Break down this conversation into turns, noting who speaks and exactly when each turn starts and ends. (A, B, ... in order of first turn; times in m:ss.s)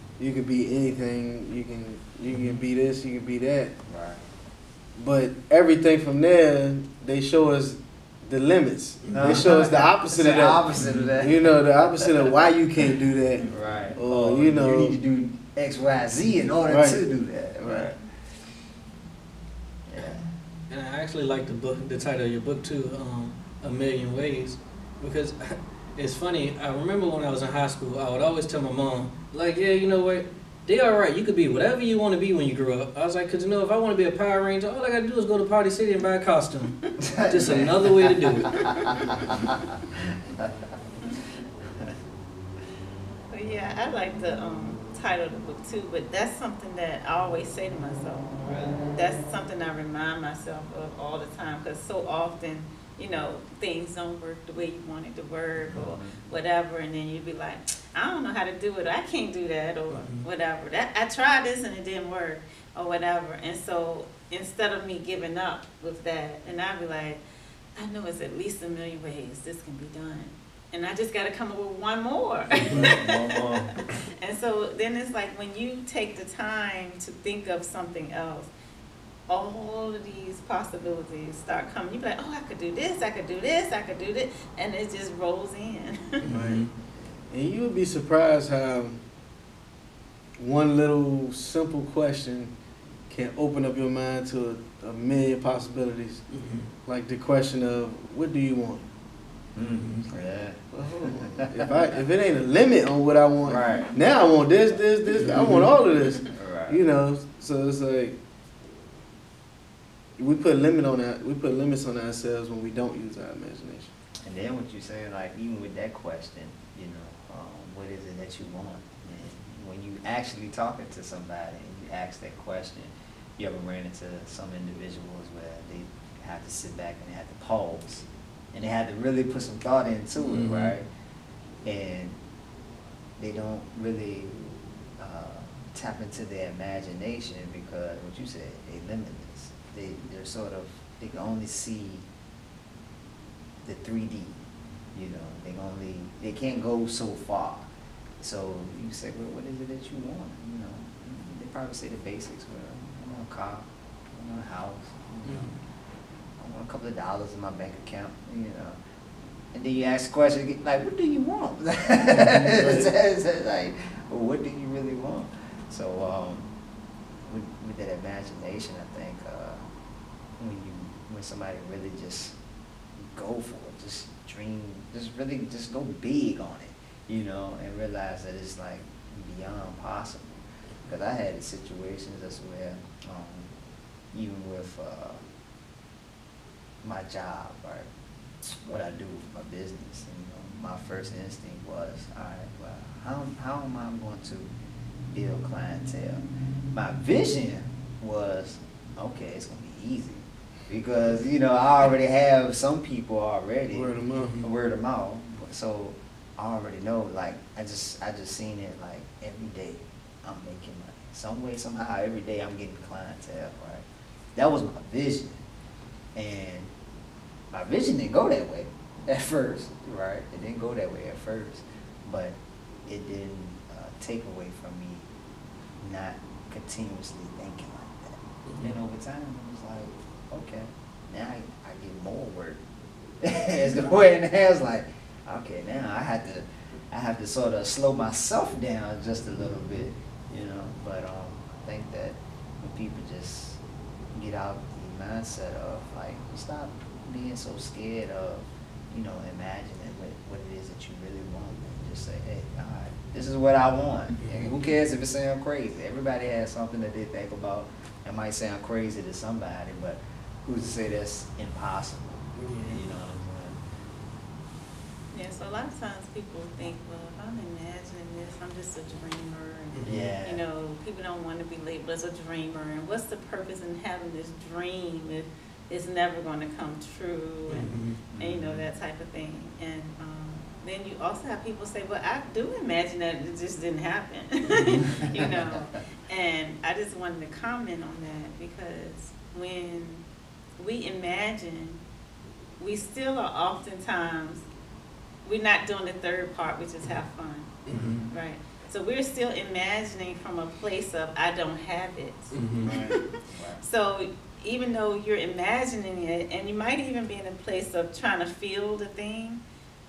0:00.2-0:03.8 A
0:02.3-0:02.6 B
0:03.9-0:04.2 C
0:05.0-0:15.0 A
0:09.1-0:11.4 C
0:10.8-0:11.1 B
0:13.5-0:18.1 C
0:16.7-0:17.0 A
0:17.6-0:17.9 A
0:19.9-0:20.3 C
0:20.7-0:38.6 B
0:37.0-0:40.6 C
0:43.3-1:07.2 D
0:48.5-0:48.7 B
0:55.7-0:56.2 C
0:59.9-1:00.2 B
1:07.8-1:13.4 D
1:12.6-1:13.8 C
1:12.6-1:12.9 B
1:14.2-1:18.5 D
1:19.3-1:26.2 D
1:26.2-1:26.7 B
1:26.3-1:26.7 A
1:27.3-1:29.0 A
1:30.4-1:32.5 A
1:33.1-1:36.2 A
1:36.3-1:36.7 B
1:36.8-1:38.8 A
1:39.6-1:41.7 C
1:40.7-1:48.2 A
1:43.4-1:43.9 C
1:45.2-1:45.6 B
1:46.3-1:46.8 C
1:50.2-1:53.9 A
1:54.2-2:10.9 C
2:10.2-2:10.7 B
2:11.6-2:12.2 C
2:13.2-2:22.1 C
2:23.6-2:24.4 C
2:24.9-2:35.6 C
2:35.3-2:35.5 B
2:36.4-2:38.8 C
2:39.5-2:46.5 C
2:42.6-2:42.9 B
2:47.3-2:49.6 C
2:50.4-2:52.4 C
2:53.0-3:03.5 C
3:04.1-3:05.2 C
3:06.8-3:07.9 C
3:08.4-3:14.5 C
3:15.1-3:35.4 C
3:23.7-3:24.4 A
3:24.2-3:24.5 B
3:36.2-3:36.7 C
3:37.5-3:45.1 C
3:45.8-3:52.6 C
3:48.4-3:48.8 B
3:53.2-4:03.6 C
4:04.1-4:23.6 C
4:14.2-4:14.5 B
4:22.4-4:22.8 B
4:25.1-4:50.0 D
4:29.7-4:30.0 B
4:29.8-4:30.4 C
4:37.5-4:38.0 B
4:38.1-4:38.7 C
4:44.6-4:44.8 B
4:44.9-4:45.8 C
4:50.6-4:51.8 D
4:52.6-4:54.5 D
4:55.2-4:57.5 D
4:57.7-4:58.0 B
4:57.7-4:58.1 C
4:58.1-5:03.0 D
5:02.3-5:02.7 B
5:02.6-5:03.7 C
5:03.6-5:09.4 D